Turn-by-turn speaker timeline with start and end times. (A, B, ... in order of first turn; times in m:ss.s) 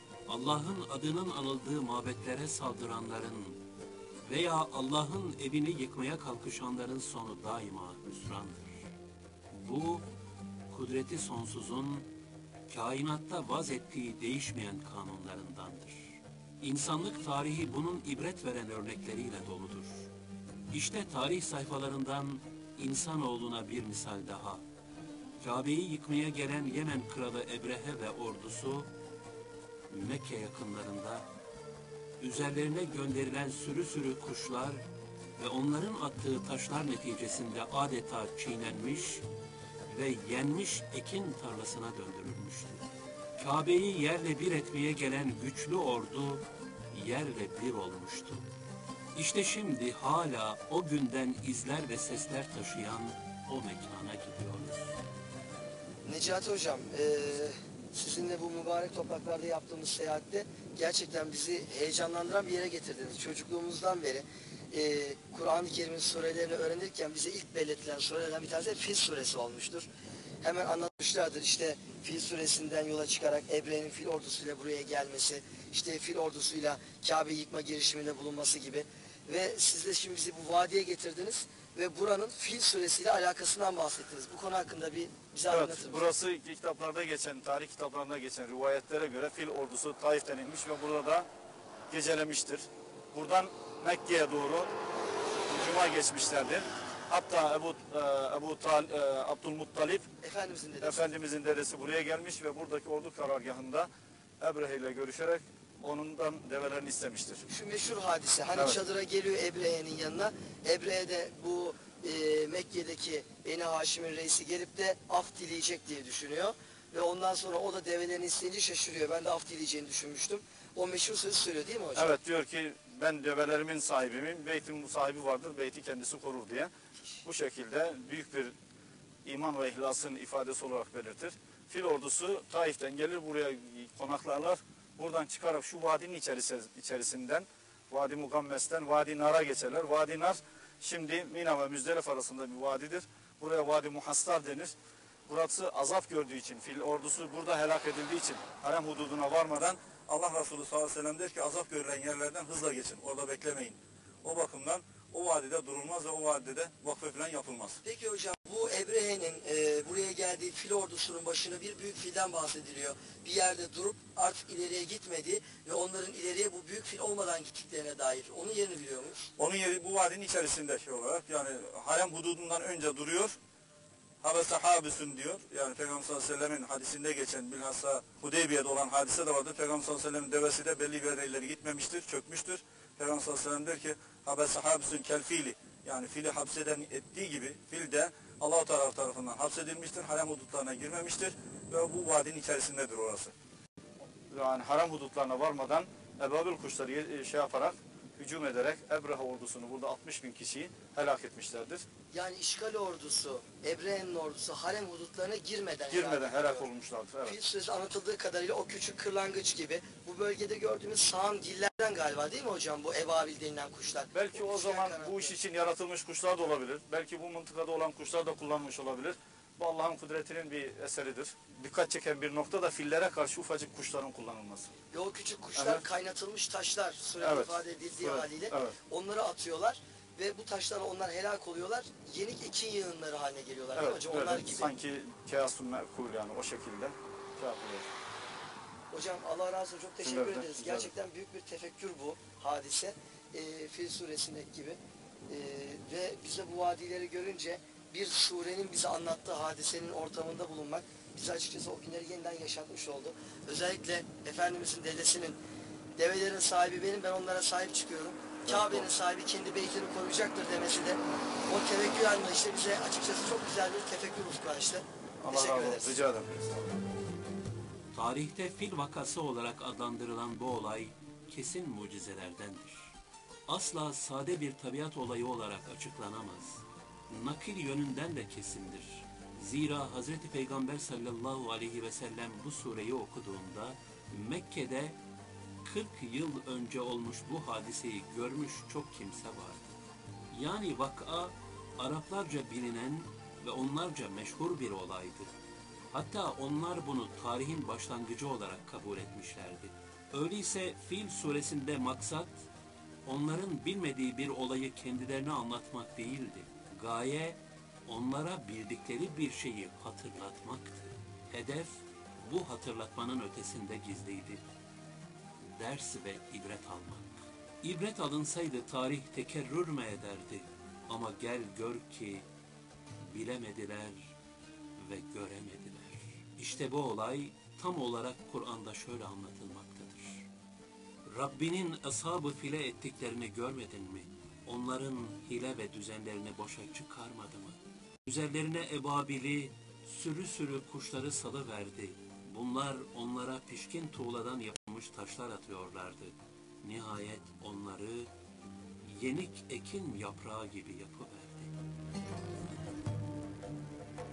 0:00.3-0:03.6 A
0:04.2-0:08.9 A
0:09.5-0:10.0 A
0:10.7-0:12.1 A
0:12.7-0:20.1 A
0:20.7-0:24.6 A
0:25.4-0:28.9 A
0:29.9-0:31.3 A
0:32.2-0:34.8 A
0:35.4-0:39.3 A
0:39.9-0:42.8 A
0:43.4-0:48.5 A
0:49.2-0:55.0 A
0:56.0-1:09.9 B
1:10.4-1:26.1 B
1:25.5-1:31.3 C
1:31.9-1:34.7 C
1:35.5-1:40.1 C
1:40.2-1:41.0 B
1:40.8-1:47.4 C
1:47.5-2:02.1 B
2:02.0-2:06.7 C
2:07.2-2:08.6 C
2:09.2-2:24.8 C
2:25.3-2:37.8 C
2:37.8-2:49.3 B
2:49.4-2:53.4 C
2:54.2-3:13.3 C
3:14.3-3:21.8 C
3:22.1-3:26.7 B
3:25.9-3:27.4 C
3:27.2-3:35.4 B
3:34.1-3:44.7 C
3:44.9-3:54.7 B
3:45.6-3:45.8 C
3:47.2-3:48.8 C
3:53.8-3:57.9 C
3:58.9-4:15.4 B
4:00.0-4:00.9 C
4:16.0-4:26.0 B
4:18.5-4:18.9 C
4:25.2-4:26.7 C
4:27.9-4:32.9 A
4:33.5-4:45.0 A
4:45.6-4:49.8 A
4:50.3-4:55.3 A
4:55.9-5:02.4 A
5:03.0-5:14.4 A
5:15.4-5:22.3 A
5:23.0-5:24.1 A
5:24.8-5:30.3 A
5:31.1-5:48.1 A
5:48.8-5:51.5 A